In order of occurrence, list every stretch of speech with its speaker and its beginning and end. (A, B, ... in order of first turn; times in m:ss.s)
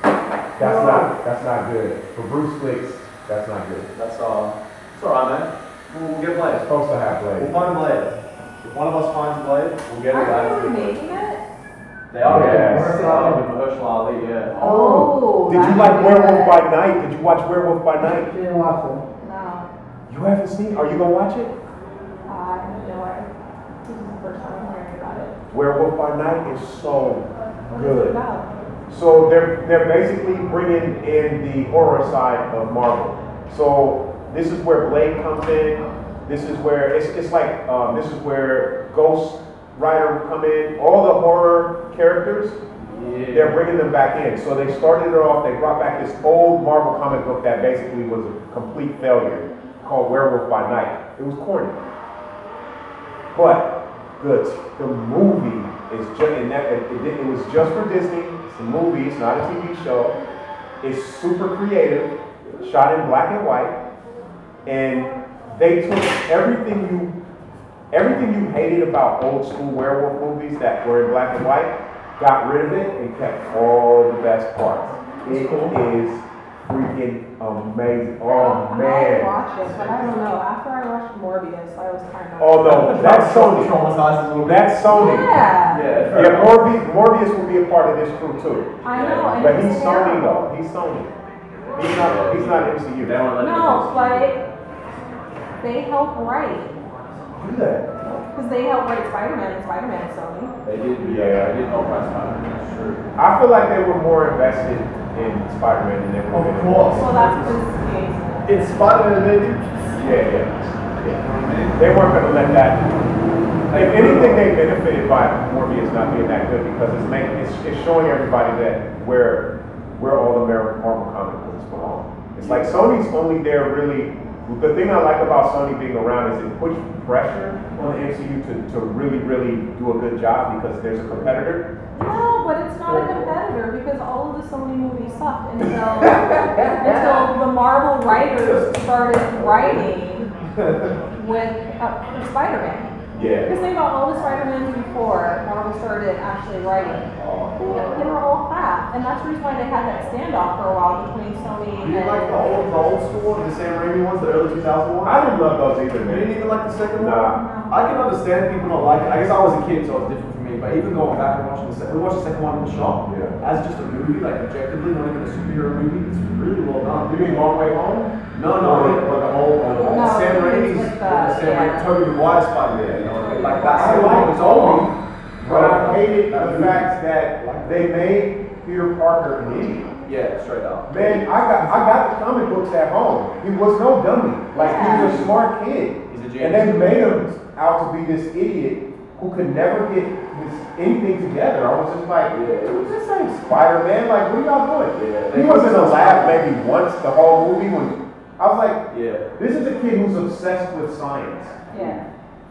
0:00.6-0:03.9 A
0:00.6-0:01.1 B
0:03.9-0:06.6 B
0:06.6-0:07.5 A
0:07.4-0:11.0 B
0:10.1-0:11.4 C
0:12.1-0:14.6 B
0:12.2-0:13.1 A
0:12.3-0:13.4 D
0:14.6-0:15.1 D
0:14.6-0:16.6 C
0:14.6-0:18.3 A
0:18.1-0:19.0 D
0:19.2-0:19.7 C
0:20.1-0:21.5 A
0:22.3-0:23.3 C
0:23.8-0:25.3 C
0:25.5-0:28.2 A
0:27.7-0:28.4 C
0:28.9-0:42.6 A
0:42.8-0:43.6 B
0:43.3-0:51.8 A
0:53.3-1:00.1 A
1:00.8-1:03.8 A
1:04.6-1:07.1 A
1:07.9-1:19.3 A
1:15.2-1:15.8 B
1:18.3-1:23.0 C
1:19.6-1:20.2 B
1:22.4-1:23.8 A
1:22.6-1:24.8 B
1:24.4-1:25.4 A
1:24.8-1:25.8 C
1:25.7-1:26.6 B
1:26.1-1:28.7 A
1:28.8-1:30.5 C
1:28.9-1:29.6 B
1:29.4-1:31.1 A
1:31.8-1:33.2 A
1:31.8-1:34.3 B
1:33.4-1:34.4 C
1:35.6-1:36.8 C
1:37.4-1:37.8 A
1:38.3-1:40.5 C
1:40.6-1:43.0 B
1:41.0-1:41.6 A
1:43.2-1:47.1 A
1:46.3-1:47.6 B
1:46.9-1:48.9 C
1:48.4-1:50.0 B
1:50.0-1:50.7 A
1:51.0-1:51.8 B
1:51.8-1:52.9 A
1:53.7-1:54.5 B
1:53.7-2:11.7 A
2:02.4-2:02.9 B
2:11.9-2:20.3 C
2:16.0-2:17.2 B
2:18.1-2:18.7 B
2:19.3-2:19.9 B
2:20.5-2:21.0 B
2:21.1-2:27.0 C
2:23.1-2:23.5 B
2:23.2-2:23.4 A
2:27.1-2:28.1 B
2:27.6-2:32.4 C
2:31.8-2:35.2 B
2:35.0-2:36.3 A
2:36.0-2:47.4 B
2:36.9-2:37.4 A
2:37.3-2:37.7 C
2:43.0-2:43.4 A
2:47.1-2:50.2 A
2:48.3-2:58.0 B
2:49.7-2:51.9 C
2:52.7-2:53.1 A
2:53.0-2:54.3 C
2:53.6-2:59.9 A
3:00.0-3:01.8 B
3:00.9-3:18.8 A
3:04.5-3:05.3 B
3:04.6-3:05.2 C
3:06.1-3:07.2 B
3:12.3-3:13.0 B
3:14.9-3:16.4 B
3:18.9-3:19.3 B
3:19.4-3:21.6 A
3:21.7-3:22.0 B
3:21.7-3:22.0 C